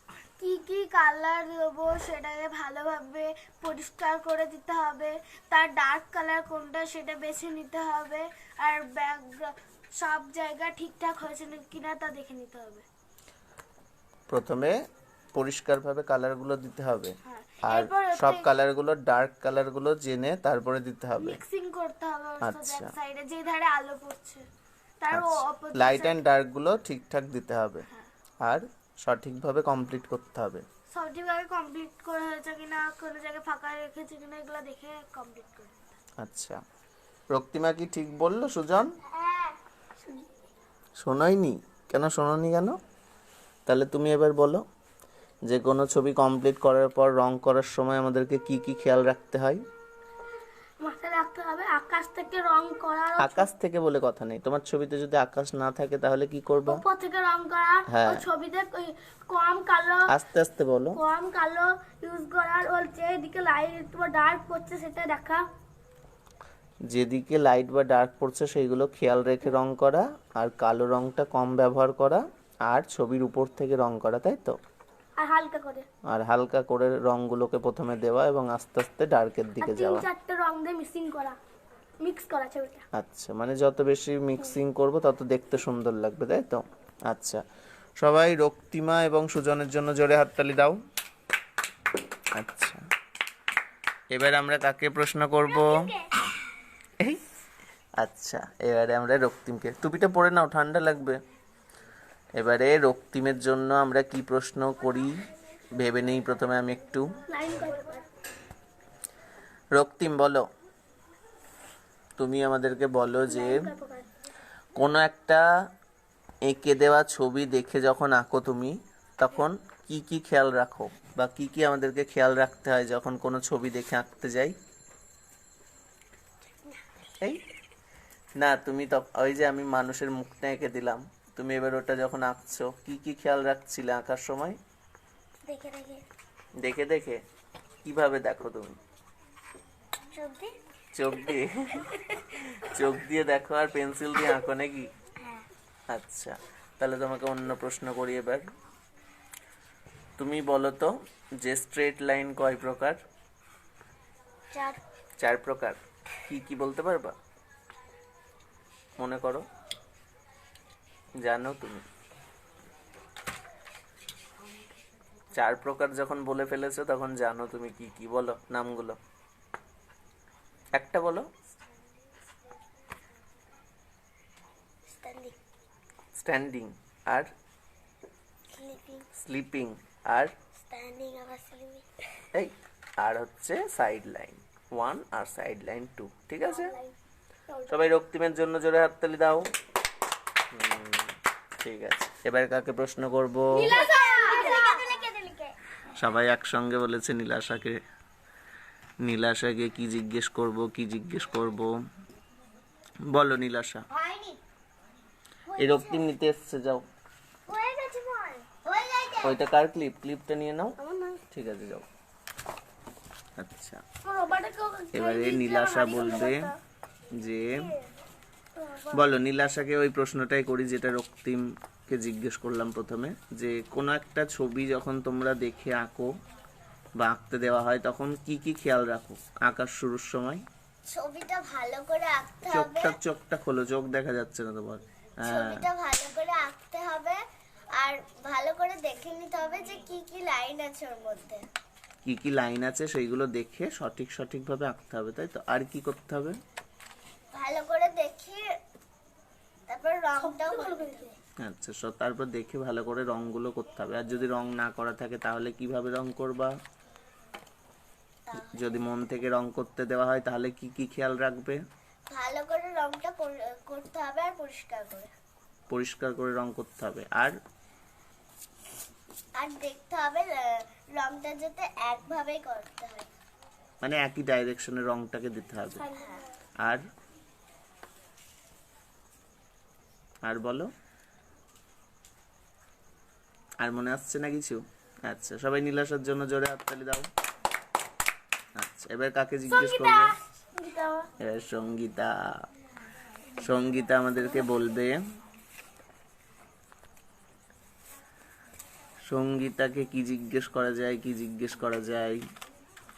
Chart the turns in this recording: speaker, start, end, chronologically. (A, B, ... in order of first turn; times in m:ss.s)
0:00.4-0:12.8 A
0:14.3-0:14.8 B
0:15.3-0:21.4 B
0:17.2-0:18.5 A
0:21.2-0:24.4 A
0:22.4-0:22.9 B
0:25.0-0:26.2 A
0:25.1-0:27.8 B
0:28.4-0:30.6 B
0:30.9-0:35.9 A
0:36.2-0:36.6 B
0:37.3-0:38.9 B
0:39.1-0:40.2 A
0:41.0-0:42.8 B
0:43.7-0:44.6 B
0:45.5-0:49.6 B
0:50.8-0:53.5 A
0:53.2-0:56.8 B
0:56.7-1:00.1 A
0:57.9-0:58.2 B
1:00.1-1:01.0 B
1:01.0-1:05.4 A
1:06.9-1:14.6 B
1:15.2-1:15.9 A
1:16.1-1:20.0 B
1:19.6-1:21.4 A
1:22.0-1:22.8 A
1:22.9-1:27.4 B
1:28.0-1:30.8 B
1:32.3-1:32.8 B
1:34.1-1:35.9 B
1:35.5-1:36.1 C
1:38.0-1:41.2 B
1:42.4-1:47.2 B
1:47.3-1:48.0 A
1:49.7-1:50.4 B
1:52.2-1:53.7 B
1:53.3-1:54.1 A
1:54.7-1:55.5 B
1:56.5-2:04.5 B
2:08.4-2:14.6 B
2:15.4-2:16.0 C
2:16.6-2:17.2 B
2:17.8-2:18.8 B
2:20.1-2:20.5 C
2:20.9-2:24.9 B
2:25.2-2:25.4 C
2:25.9-2:28.4 B
2:30.2-2:33.0 B
2:35.2-2:37.2 B
2:39.0-2:39.5 B
2:41.2-2:41.8 B
2:45.3-2:49.0 B
2:50.7-2:51.3 B
2:54.9-2:55.4 C
2:56.2-2:57.3 B
2:58.5-2:59.0 C
2:59.1-3:00.3 B
3:00.6-3:02.0 C
3:02.3-3:06.7 B
3:06.5-3:06.9 A
3:07.5-3:07.9 A
3:07.7-3:09.5 B
3:10.5-3:13.8 B
3:13.5-3:15.5 A
3:13.6-3:15.1 C
3:16.0-3:17.8 B
3:19.0-3:21.7 B
3:23.1-3:23.8 B
3:23.9-3:24.4 C
3:25.4-3:26.1 C
3:25.6-3:26.8 B
3:27.5-3:29.4 C
3:29.2-3:30.7 B
3:30.8-3:31.2 A
3:31.3-3:31.8 B
3:33.4-3:33.8 B
3:34.0-3:36.5 A
3:34.9-3:36.5 B
3:37.2-3:37.7 B
3:38.6-3:39.0 A
3:38.9-3:46.1 B
3:47.0-3:50.4 B
3:50.9-3:53.0 C
3:52.5-3:55.6 B
3:55.2-3:57.2 C
3:57.8-4:01.4 C
4:02.0-4:06.4 B
4:07.3-4:08.5 C
4:09.7-4:11.1 C
4:10.2-4:11.1 A
4:11.4-4:16.5 B
4:18.3-4:18.9 C
4:18.5-4:21.6 B
4:22.1-4:25.1 C
4:25.7-4:27.4 B
4:29.4-4:33.1 C
4:33.8-4:35.8 B
4:35.8-4:36.3 A
4:35.9-4:36.2 C
4:40.2-4:40.7 B
4:43.6-4:47.1 B
4:48.6-4:50.1 B
4:49.5-4:51.1 A
4:51.2-4:52.3 B
4:53.4-4:55.0 B
4:59.1-5:02.2 B